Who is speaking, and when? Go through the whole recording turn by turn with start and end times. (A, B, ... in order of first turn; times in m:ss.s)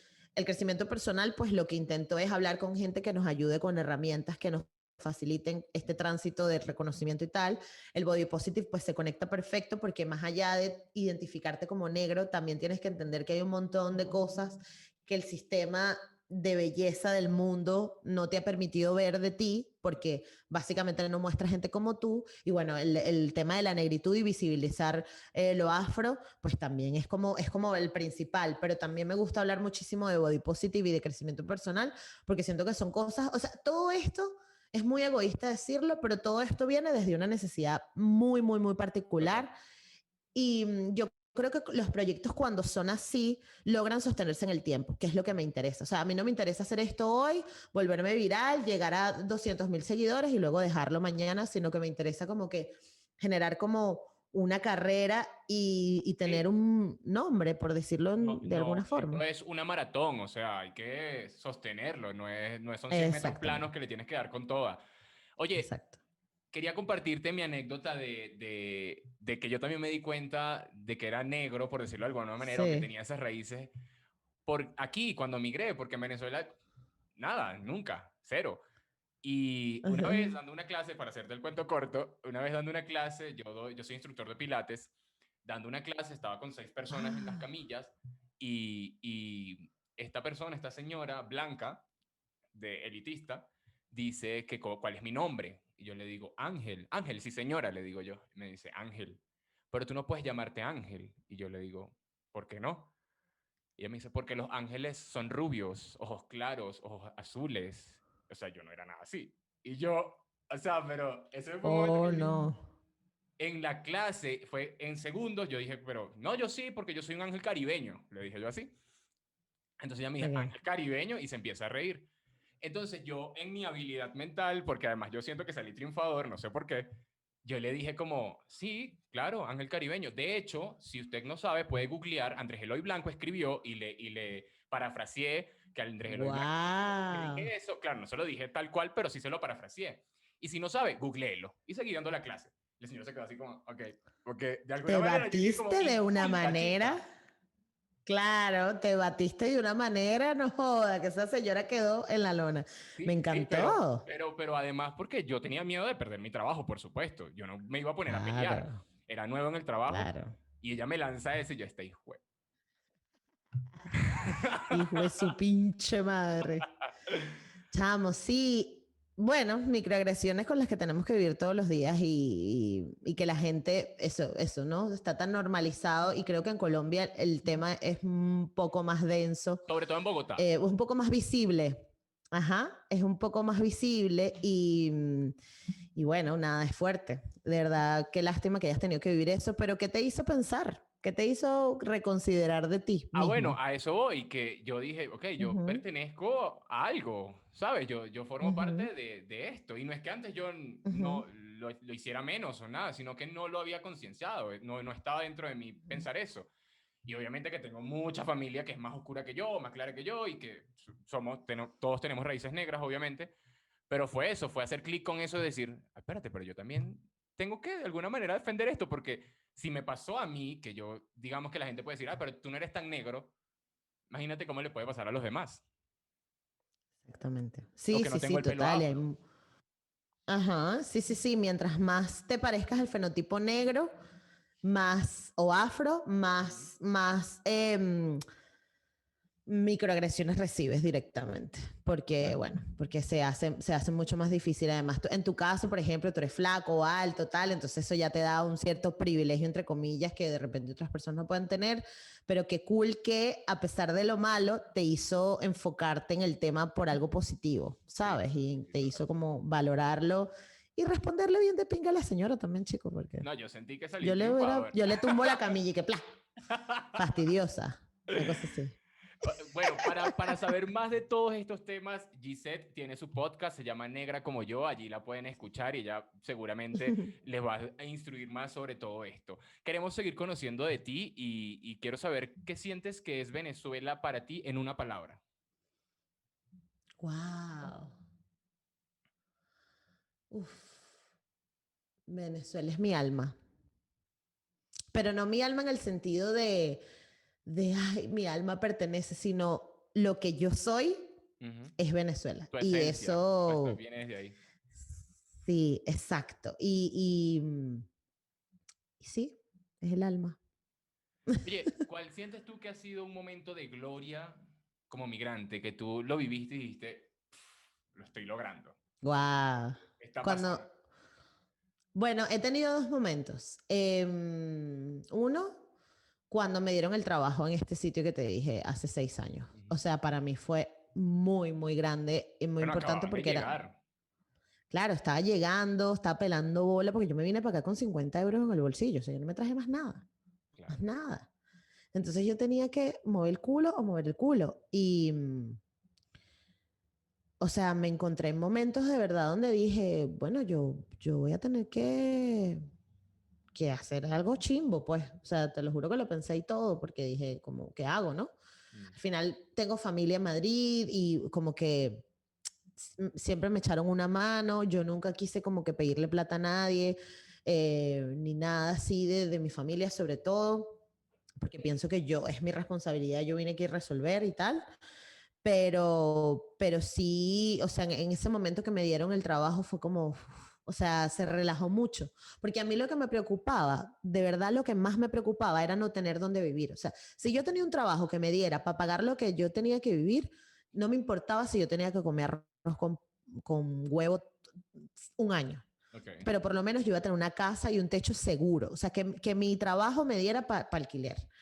0:00.4-0:39.5 A
0:39.2-0:39.5 B
0:40.3-0:59.2 A
0:58.2-1:04.8 B
1:02.9-1:03.7 A
1:05.4-1:05.7 B
1:05.6-1:05.9 A
1:06.5-1:13.7 B
1:12.4-1:12.9 A
1:14.5-1:16.5 B
1:17.2-1:18.6 B
1:19.2-1:31.8 B
1:19.8-1:20.4 A
1:26.9-1:27.5 A
1:32.5-1:42.9 B
1:43.8-1:52.4 B
1:51.6-1:52.6 A
1:53.4-1:58.7 B
1:59.8-2:02.1 B
2:00.2-2:00.5 A
2:02.6-2:06.9 B
2:07.4-2:27.0 B
2:16.1-2:17.5 A
2:24.9-2:27.0 A
2:28.1-2:34.1 A
2:33.0-2:42.2 B
2:38.1-2:38.8 A
2:39.9-2:40.4 A
2:43.9-2:45.1 B
2:44.2-2:46.7 A
2:47.7-2:59.6 A
2:59.7-3:00.5 B
3:00.4-3:05.3 A
3:06.0-3:13.6 A
3:13.1-3:26.5 B
3:15.4-3:15.8 A
3:18.4-3:18.9 A
3:20.9-3:21.2 A
3:27.0-3:33.4 B
3:33.9-3:43.3 B
3:44.1-3:45.6 B
3:47.0-3:49.2 A
3:47.9-3:49.0 B
3:50.3-3:53.9 A
3:54.6-3:58.2 A
3:59.5-4:23.2 A
4:18.0-4:19.0 B
4:23.2-4:25.4 B
4:24.0-4:26.0 A
4:26.5-4:27.0 B
4:27.0-4:30.2 A
4:29.2-4:45.2 B
4:47.0-4:48.0 A
4:50.3-4:50.8 A
4:52.1-4:53.4 A
4:54.9-4:56.8 A
4:57.4-5:01.0 A
5:01.4-5:01.8 B
5:01.8-5:03.8 A
5:02.5-5:04.4 B
5:05.4-5:07.9 A
5:09.0-5:10.4 A
5:11.4-5:17.2 B
5:17.9-5:18.8 B
5:19.0-5:20.6 A
5:20.0-5:20.7 B
5:21.9-5:25.5 A
5:26.3-5:33.5 A
5:32.6-5:33.8 B
5:34.7-5:40.1 A
5:40.6-5:40.8 B
5:40.7-5:41.3 A
5:41.9-5:45.6 A
5:47.4-5:52.6 A
5:53.5-5:58.3 A
5:58.9-6:02.1 A
6:02.8-6:10.8 A
6:11.4-6:14.6 A
6:15.4-6:34.4 A
6:35.1-6:35.7 A
6:35.9-6:36.3 B
6:36.2-6:41.3 A